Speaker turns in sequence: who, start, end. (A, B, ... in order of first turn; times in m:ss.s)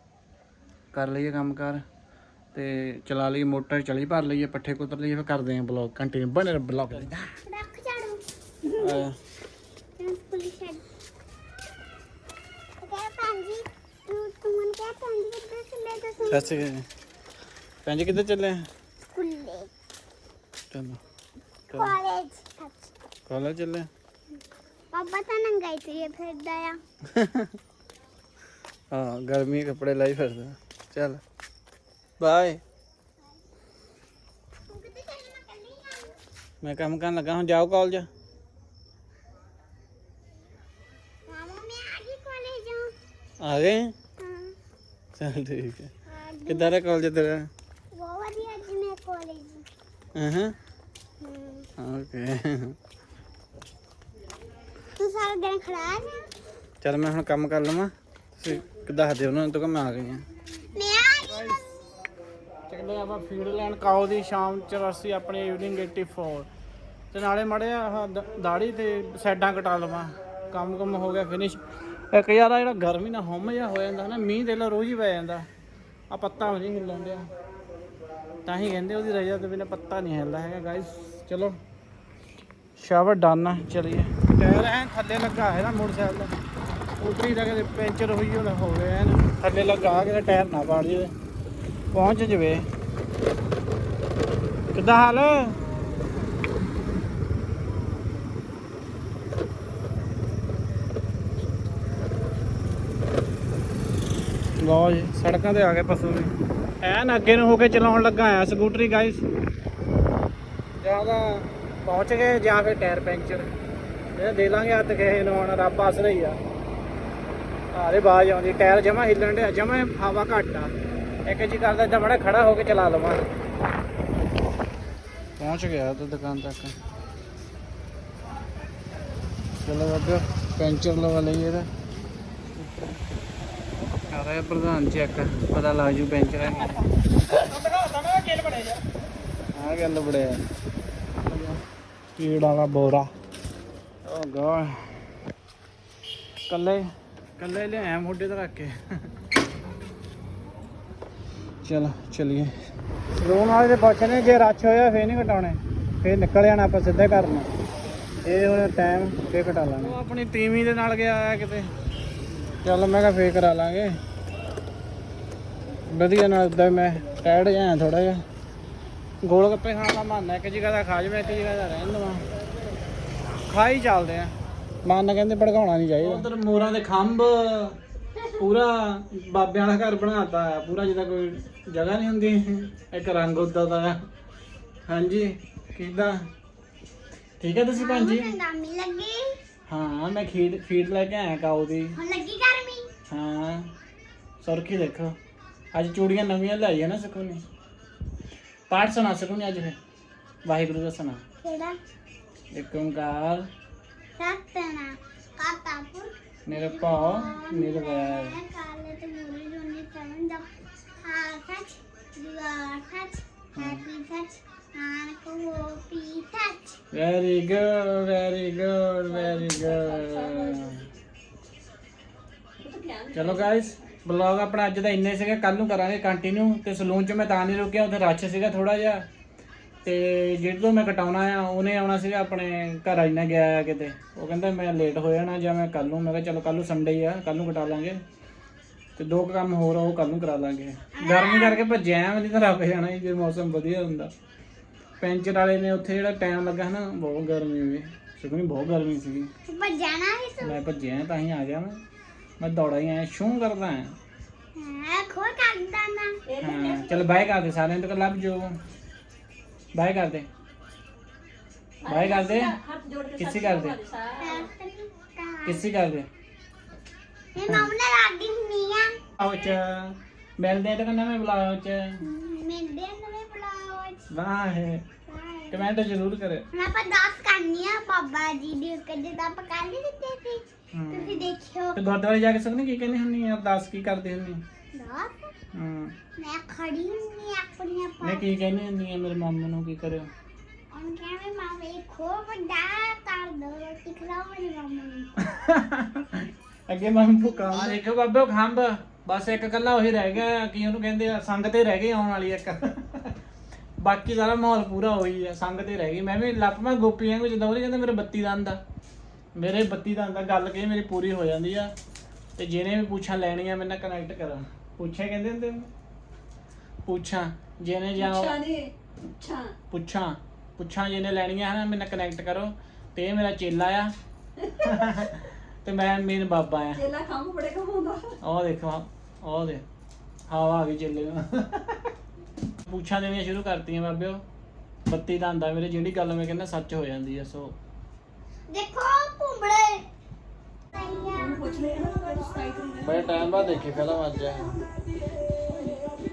0:00.9-0:01.8 A
0:02.5-0:07.3 A
0:07.5-0:08.2 B
0:08.7-0:09.0 C
0:08.8-0:09.2 A
0:10.0-0:10.8 B
0:12.8-0:16.6 B
0:16.3-0:16.9 A
0:17.8-0:18.7 A
0:19.1-0:19.7 B
0:20.7-0:21.0 A
0:21.7-0:22.0 A
0:21.7-0:22.9 B
0:23.3-0:23.9 A
0:24.9-0:26.8 B
0:27.2-0:27.5 A
0:28.9-0:31.2 A
0:32.2-0:32.6 A
0:34.7-0:36.1 B
0:36.6-0:38.1 A
0:41.3-0:42.9 B
0:43.4-0:44.0 A
0:44.2-0:44.6 B
0:45.2-0:45.9 A
0:46.1-0:46.8 B
0:46.5-0:47.5 A
0:47.9-0:49.7 B
0:50.2-0:50.6 A
0:51.2-0:51.7 B
0:51.8-0:52.8 A
0:55.0-0:56.3 B
0:56.8-1:00.2 A
1:00.7-1:01.7 B
1:01.3-1:01.6 A
1:02.7-1:06.5 A
1:07.1-1:11.6 A
1:12.1-1:15.5 A
1:16.1-1:17.3 A
1:18.5-1:21.6 A
1:22.8-1:26.3 A
1:27.0-1:31.1 A
1:31.9-1:32.6 A
1:34.7-1:35.6 A
1:44.6-1:49.2 A
1:50.8-1:53.5 A
1:54.2-1:56.4 A
1:57.7-2:00.7 A
2:01.3-2:03.3 A
2:05.4-2:06.8 A
2:09.6-2:11.7 A
2:14.1-2:16.9 A
2:17.4-2:18.8 A
2:19.5-2:20.4 A
2:21.3-2:21.6 A
2:22.2-2:23.1 A
2:24.0-2:24.9 A
2:26.5-2:28.8 A
2:31.6-2:32.5 A
2:33.1-2:37.5 A
2:38.2-2:41.7 A
2:42.6-2:44.0 A
2:45.9-2:48.2 A
2:49.2-2:52.2 A
2:53.5-2:54.3 A
2:54.8-2:57.8 A
2:58.3-3:04.0 A
3:04.9-3:06.3 A
3:07.4-3:08.4 A
3:07.8-3:09.4 B
3:09.7-3:12.0 A
3:12.0-3:12.9 B
3:13.1-3:13.7 A
3:14.4-3:15.2 A
3:15.7-3:17.4 A
3:18.7-3:19.8 A
3:20.5-3:21.2 A
3:21.4-3:21.8 B
3:22.5-3:23.5 A
3:24.2-3:36.8 B
3:26.5-3:28.4 A
3:33.6-3:33.8 A
3:36.9-3:40.9 A
3:39.1-3:40.8 C
3:42.6-3:44.0 C
3:43.1-3:49.1 A
3:49.8-3:58.0 A
3:59.0-4:04.1 A
4:01.0-4:01.6 B
4:05.0-4:09.3 A
4:09.4-4:10.6 B
4:10.4-4:11.8 A
4:12.4-4:14.0 A
4:14.6-4:16.2 B
4:16.3-4:17.1 C
4:16.4-4:18.6 A
4:19.7-4:20.3 A
4:21.8-4:24.5 C
4:21.8-4:22.6 A
4:23.2-4:23.8 A
4:24.2-4:25.6 B
4:25.4-4:26.1 A
4:27.4-4:29.0 B
4:29.2-4:32.0 A
4:32.0-4:34.1 B
4:34.1-4:34.8 A
4:35.1-4:35.6 B
4:35.5-4:36.5 A
4:36.5-4:41.8 B
4:40.7-4:44.4 A
4:44.7-4:45.3 B
4:45.5-4:46.0 A
4:46.2-4:48.3 B
4:48.0-4:50.1 A
4:50.7-4:55.3 B
4:55.2-5:03.1 A
4:57.3-4:57.8 B
5:03.8-5:08.6 A
5:09.4-5:11.7 A
5:12.4-5:15.7 A
5:16.8-5:18.4 A
5:18.0-5:19.5 C
5:19.7-5:23.9 A
5:24.4-5:25.1 C
5:24.5-5:26.8 A
5:26.8-5:28.2 C
5:28.2-5:29.6 A
5:30.3-5:31.9 A
5:32.6-5:34.2 A
5:34.9-5:37.6 A
5:38.5-5:39.9 B
5:40.7-5:41.5 B
5:41.1-5:43.5 C
5:42.8-5:44.6 A